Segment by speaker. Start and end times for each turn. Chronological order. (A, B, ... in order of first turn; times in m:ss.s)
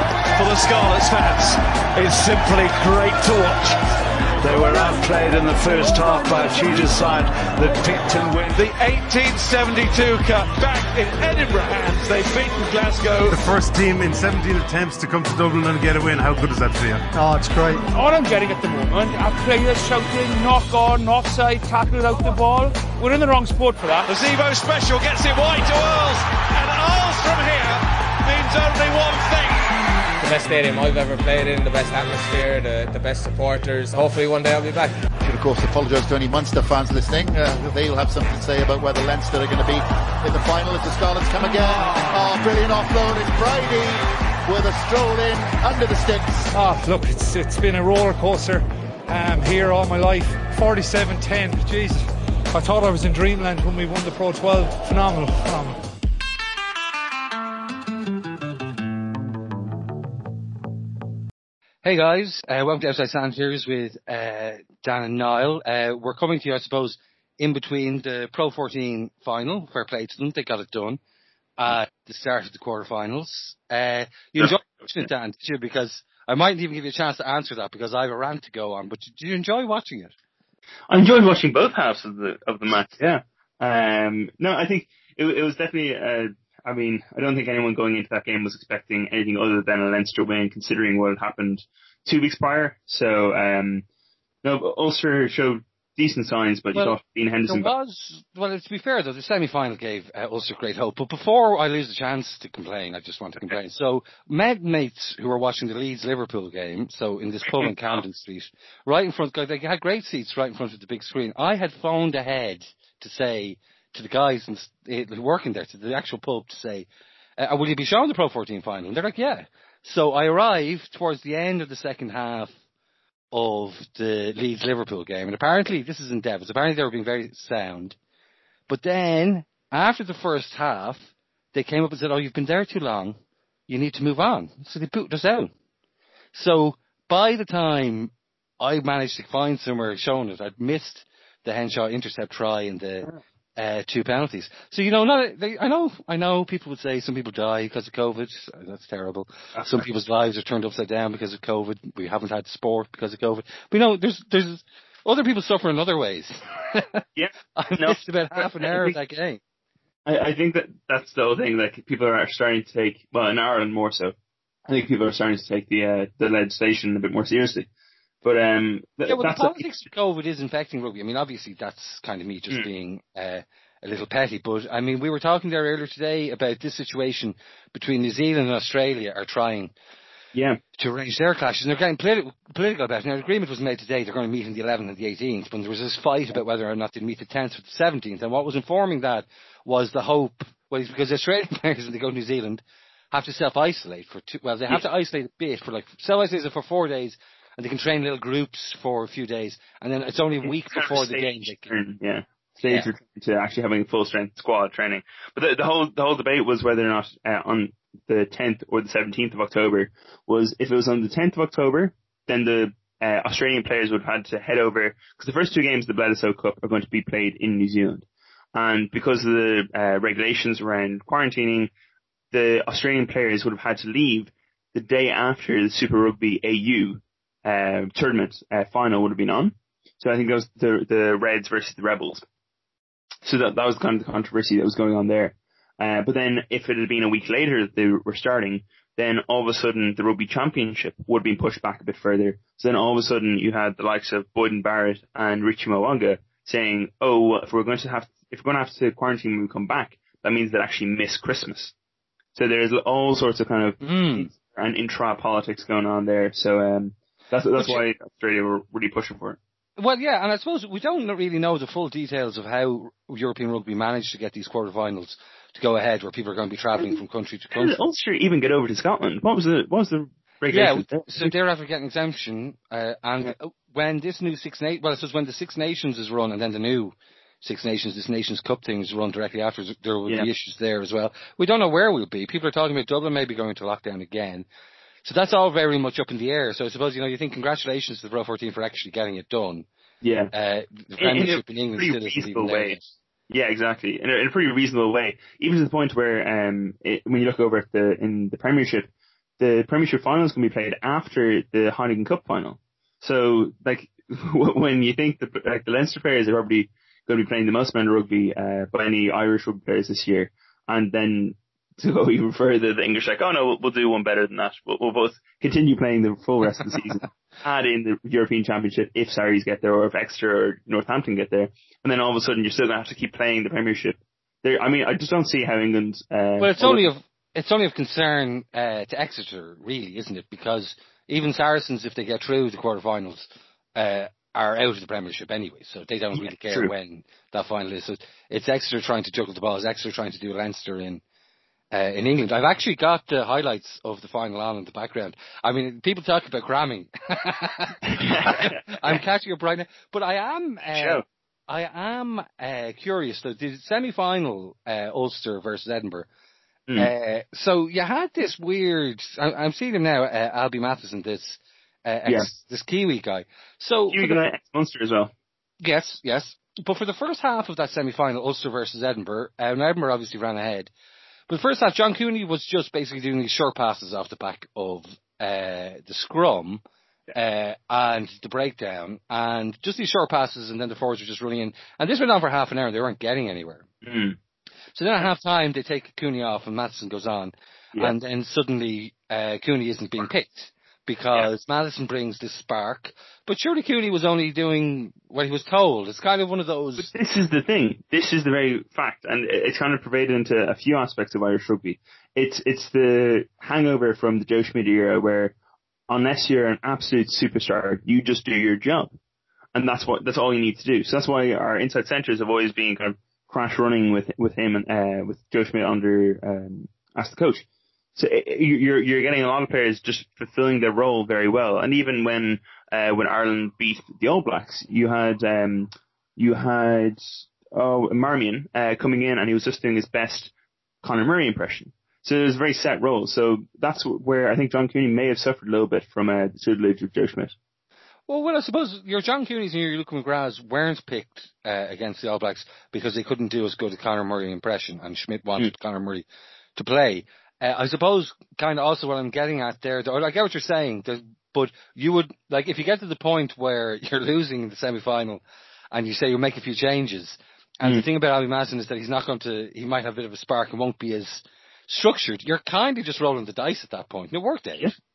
0:00.4-0:03.8 A
0:04.4-0:13.4 A
0:13.3-0:17.1 B
0:17.1-0:17.9 C
0:17.9-0:24.1 D
0:24.1-0:29.7 A
0:30.2-0:35.0 E
0:35.2-0:46.5 F
0:46.5-0:55.8 C
1:01.8-1:11.0 G
1:11.6-1:20.1 G
1:14.4-1:15.1 H
1:20.9-1:33.8 H
1:34.4-1:37.7 H
1:36.8-1:56.9 G
1:47.5-1:48.0 H
1:57.4-2:02.5 G
2:03.3-2:08.0 G
2:08.7-2:11.0 G
2:11.5-2:13.2 G
2:13.7-2:15.5 G
2:16.3-2:37.0 G
2:29.6-2:29.8 H
2:37.2-2:39.0 H
2:37.6-2:39.4 G
2:40.1-2:44.1 H
2:44.7-2:47.7 H
2:48.2-2:49.7 H
2:49.1-2:59.7 G
3:00.3-3:00.6 H
3:00.8-3:21.8 G
3:20.4-3:41.7 H
3:42.3-3:52.2 H
3:53.2-4:11.7 H
4:12.4-4:19.4 H
4:13.8-4:14.3 G
4:19.8-4:27.8 G
4:27.5-4:31.3 H
4:30.5-4:44.5 G
4:45.0-4:49.7 G
4:50.0-4:50.3 H
4:50.3-4:52.9 G
4:51.0-5:26.9 H
5:26.4-5:41.0 G
5:36.2-5:36.7 H
5:41.7-5:56.1 G
5:47.8-5:49.0 H
5:50.7-5:51.0 H
5:56.8-6:04.2 G
6:03.9-6:05.1 H
6:05.6-6:10.7 G
6:11.3-6:16.6 G
6:17.1-6:23.7 G
6:23.8-6:24.2 H
6:24.8-6:36.9 G
6:36.8-6:45.4 H
6:45.9-6:48.9 H
6:49.6-6:57.4 H
6:58.0-7:10.3 H
7:10.8-7:17.3 H
7:18.1-7:44.7 G